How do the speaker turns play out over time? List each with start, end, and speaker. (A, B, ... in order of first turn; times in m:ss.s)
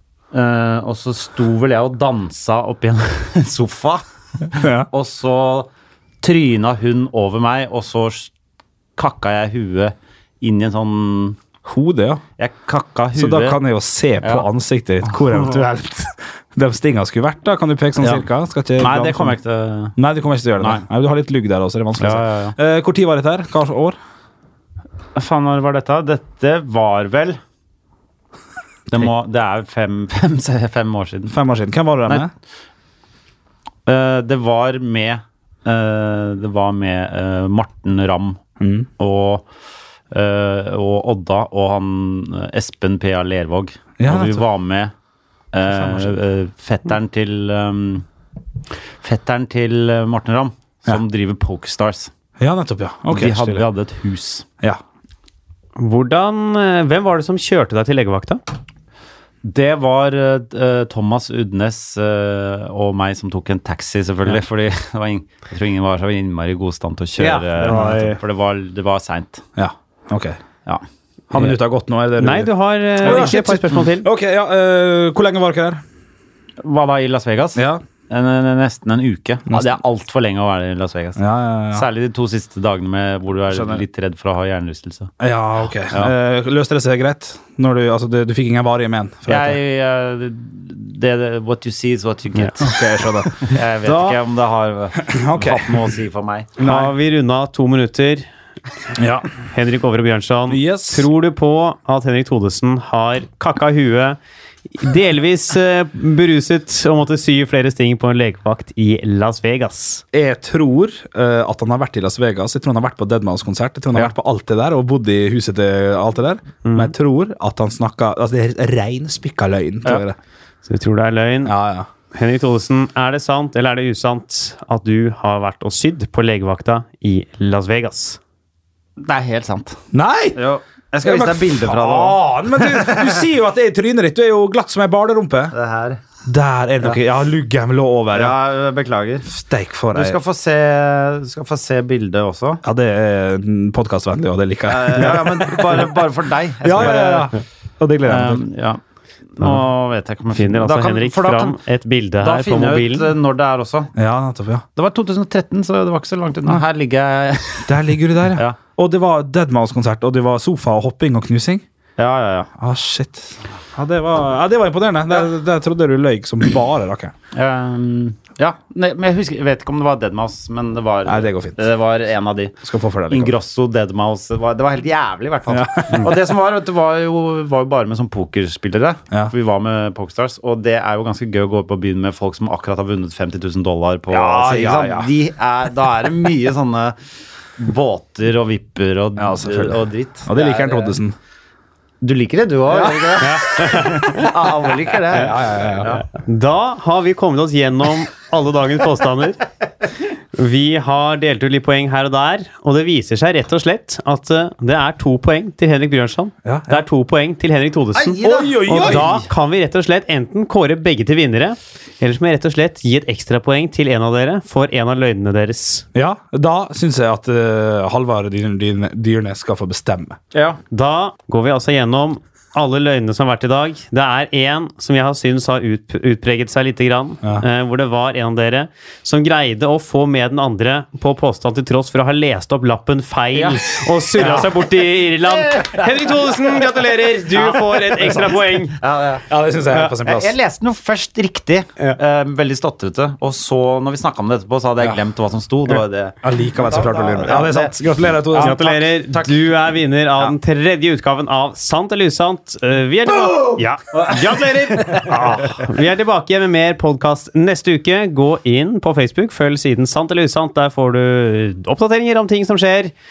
0:00.3-0:05.7 A
0:04.6-0:04.9 B
0:06.2-0:08.3 A
0:09.0-0:11.4 A
0:11.7-0:12.2 B
0:12.4-0:13.6 A
0:13.2-0:19.4 B
0:18.0-0:18.3 A
0:18.8-0:20.0 A
0:20.0-0:24.0 B
0:20.6-0:20.8 A
0:22.0-0:22.6 A
0:25.2-0:27.4 A
0:28.9-0:31.4 A
0:31.3-0:32.3 B
0:33.9-0:38.4 A
0:38.6-0:38.9 B
0:39.0-0:39.5 A
0:40.1-0:44.9 A
0:44.0-0:44.4 B
0:45.5-0:48.1 A
0:45.7-0:46.2 B
0:49.0-0:52.1 A
0:52.4-0:53.7 B
0:53.1-0:54.5 A
0:55.8-0:58.4 C
0:59.4-1:09.4 A
1:07.2-1:08.2 C
1:07.6-1:08.2 B
1:09.6-1:10.4 B
1:11.3-1:15.8 B
1:12.2-1:14.1 C
1:13.0-1:13.3 A
1:16.6-1:25.1 A
1:17.6-1:17.8 B
1:19.5-1:19.8 B
1:21.2-1:21.9 B
1:23.5-1:23.8 B
1:25.2-1:29.6 B
1:25.8-1:26.1 A
1:29.3-1:32.8 A
1:32.6-1:34.2 B
1:33.4-1:36.5 A
1:35.0-1:35.8 B
1:36.6-1:37.0 B
1:36.6-1:38.3 C
1:39.0-1:39.3 B
1:39.4-1:44.2 C
1:40.5-1:41.1 B
1:44.8-1:50.0 C
1:50.1-2:00.2 B
1:56.6-1:56.9 C
2:00.7-2:01.6 C
2:01.4-2:01.9 B
2:02.1-2:08.2 C
2:09.0-2:09.8 A
2:09.9-2:10.4 B
2:10.4-2:13.3 A
2:11.0-2:15.5 B
2:15.5-2:16.0 A
2:16.2-2:18.4 B
2:18.1-2:19.3 A
2:19.3-2:20.2 B
2:19.9-2:22.6 A
2:22.6-2:25.9 B
2:24.6-2:27.3 A
2:26.6-2:28.4 B
2:28.0-2:28.8 A
2:29.4-2:31.6 A
2:30.3-2:33.1 C
2:32.2-2:33.9 A
2:34.0-2:34.6 B
2:34.8-2:38.6 A
2:37.7-2:41.6 B
2:42.0-2:42.5 A
2:42.6-2:47.1 B
2:47.3-2:52.6 A
2:51.1-2:51.6 B
2:52.6-2:53.3 B
2:53.1-3:07.0 A
2:55.5-2:56.1 B
3:04.1-3:05.1 B
3:07.6-3:11.0 A
3:09.2-3:11.2 B
3:12.0-3:16.0 A
3:12.7-3:13.4 B
3:13.2-3:14.2 C
3:15.0-3:16.0 B
3:16.1-3:19.4 C
3:20.3-3:35.8 C
3:26.4-3:26.9 B
3:27.9-3:29.3 A
3:28.2-3:29.2 B
3:35.9-3:40.2 B
3:40.3-3:40.6 A
3:40.7-3:58.8 C
3:53.3-3:54.6 A
3:55.5-3:56.1 A
3:57.3-4:07.8 A
3:59.3-4:00.4 B
4:06.2-4:08.6 B
4:08.3-4:09.4 A
4:08.4-4:22.9 C